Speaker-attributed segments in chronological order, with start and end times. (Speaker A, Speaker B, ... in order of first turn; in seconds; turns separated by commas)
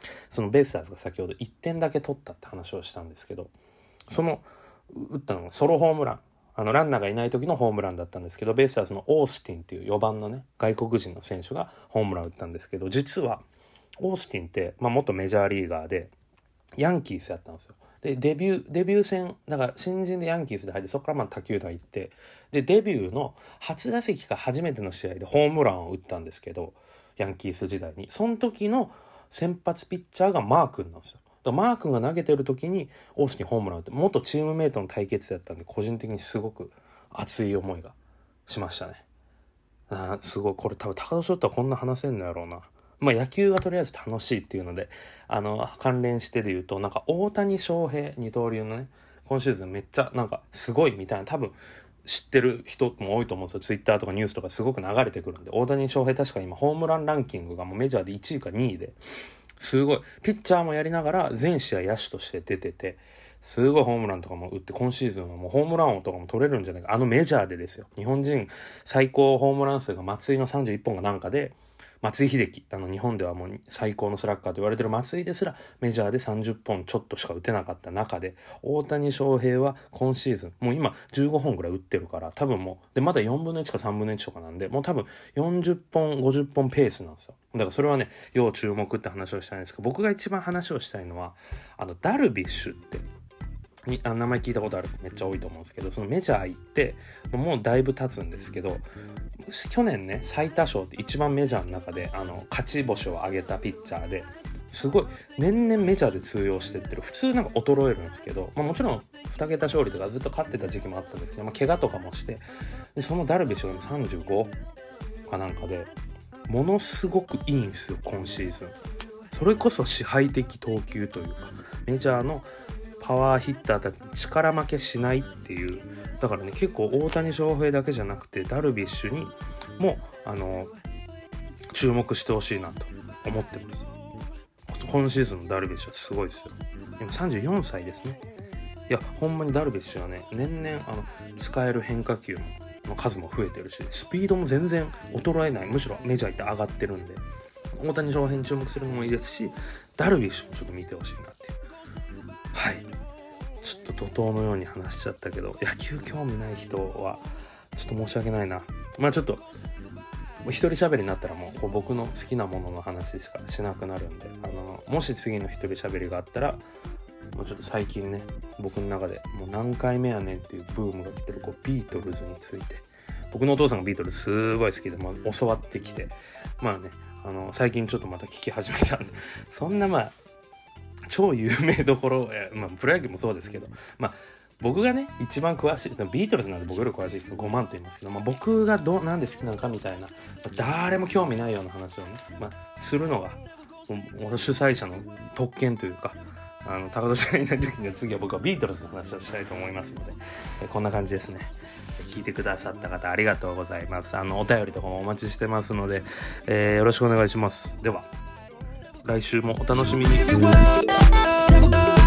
Speaker A: 0.3-3.5, Speaker A: 4.1-13.4, Speaker A: 14.0-16.1, Speaker A: 16.8-38.0, Speaker A: 38.5-39.0, Speaker A: 39.9-59.0, Speaker A: 59.6-93.1, Speaker A: 93.9-98.8, Speaker A: 99.5-112.4, Speaker A: 113.0-114.5, Speaker A: 115.3-115.9, Speaker A: 116.5-118.8, Speaker A: 119.3-122.5, Speaker A: 123.0-130.7, Speaker A: 131.7-133.9, Speaker A: 134.7-138.2, Speaker A: 138.9-147.2, Speaker A: 147.8-151.6, Speaker A: 152.5-152.9, Speaker A: 153.6-157.2, Speaker A: 157.8-159.5, Speaker A: 160.4-166.6, Speaker A: 167.3-180.2, Speaker A: 181.1-208.1, Speaker A: 209.0-210.7